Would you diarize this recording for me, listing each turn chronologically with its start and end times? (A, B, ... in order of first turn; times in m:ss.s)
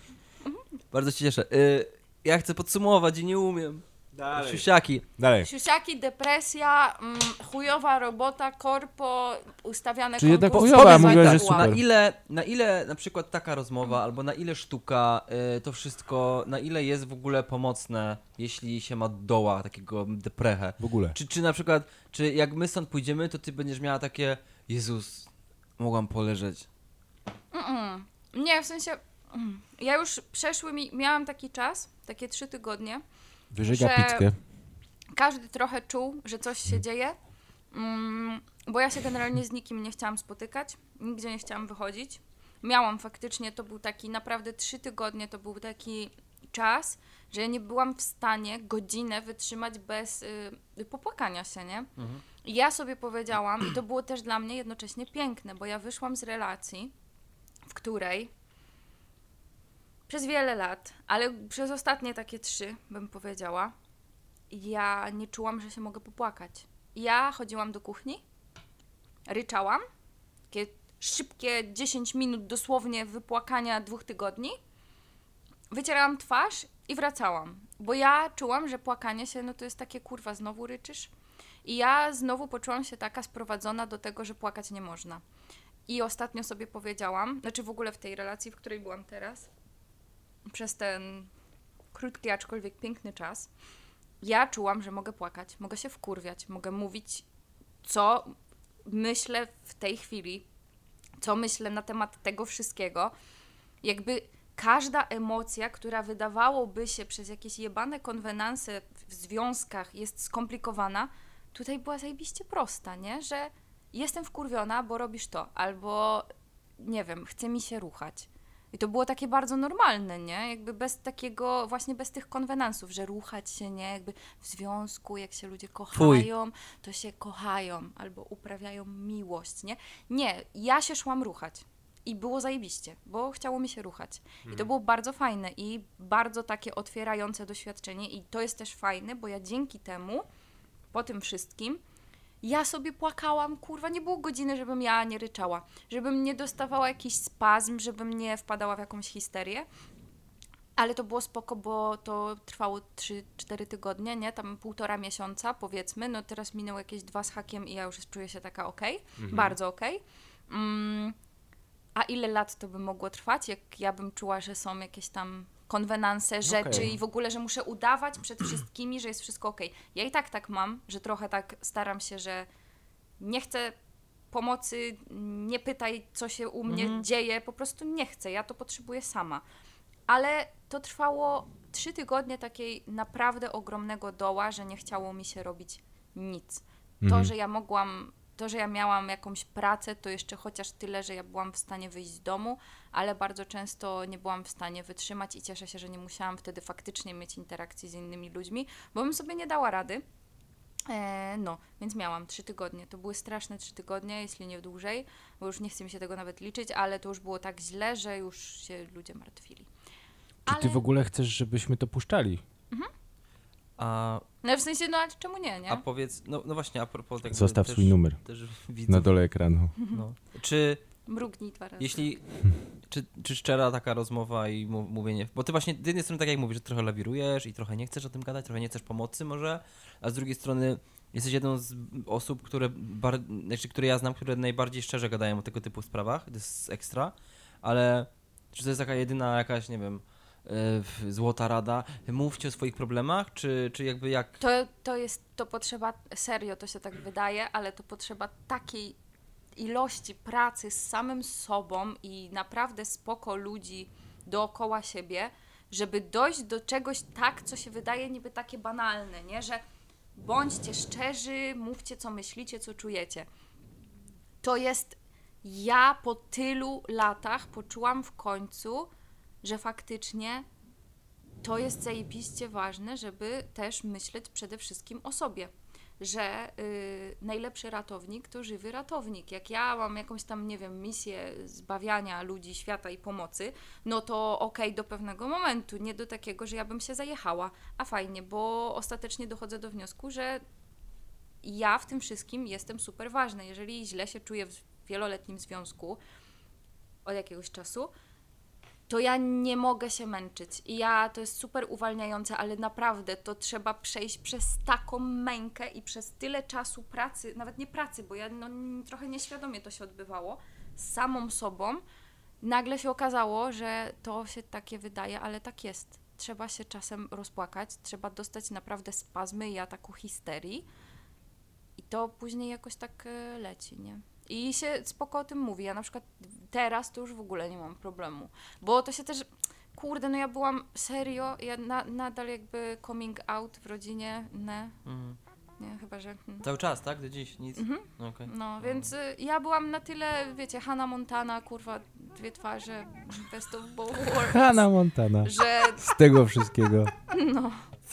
0:00.9-0:05.0 A
0:04.1-0:05.5 B
0:05.4-0:11.7 C
0:10.2-0:11.8 B
0:10.5-0:26.7 A
0:20.8-0:21.2 B
0:27.5-0:33.0 C
0:33.5-0:34.3 B
0:33.7-0:34.3 C
0:35.1-0:37.2 C
0:37.7-0:51.9 C
0:52.4-0:56.9 C
0:57.7-0:58.3 C
1:00.1-1:03.7 C
1:04.5-1:08.2 C
1:09.3-1:09.8 C
1:10.5-1:14.6 C
1:15.7-1:21.1 C
1:21.6-1:25.2 C
1:25.9-1:29.5 C
1:30.5-1:31.3 C
1:31.9-1:33.5 C
1:34.2-1:37.2 C
1:37.8-1:40.4 C
1:41.2-1:43.1 C
1:43.8-1:56.3 C
1:56.8-2:20.2 C
2:05.9-2:06.3 A
2:20.9-2:21.8 C
2:22.4-2:29.7 C
2:30.8-2:41.2 C
2:39.2-2:39.6 B
2:42.0-2:52.5 C
2:46.4-2:46.9 B
2:53.2-2:53.8 C
2:54.3-2:59.4 C
2:56.7-2:57.0 A
3:00.1-3:20.0 C
3:07.0-3:07.3 B
3:20.9-3:29.7 C
3:30.4-3:30.8 C
3:30.4-3:32.4 B
3:33.8-3:34.2 A
3:34.4-3:35.8 C
3:35.7-3:39.1 A
3:37.3-3:38.2 B
3:38.9-3:39.7 B
3:39.8-3:40.0 C
3:39.9-3:40.8 A
3:41.1-3:42.2 C
3:41.8-3:42.2 A
3:42.9-4:04.4 A
4:04.4-4:09.0 C
4:09.6-4:19.6 C
4:20.2-4:23.2 C
4:24.4-4:28.9 C
4:29.4-4:30.4 C
4:31.4-4:50.4 C
4:51.4-4:56.0 C
4:57.0-4:57.9 C
4:58.9-5:11.8 C
5:12.4-5:20.6 C
5:21.8-5:34.8 C
5:34.8-5:35.2 A
5:35.6-5:36.5 C
5:36.4-5:38.9 A
5:37.6-5:44.7 C
5:44.0-5:46.9 B
5:45.2-5:46.0 C
5:47.1-5:47.6 C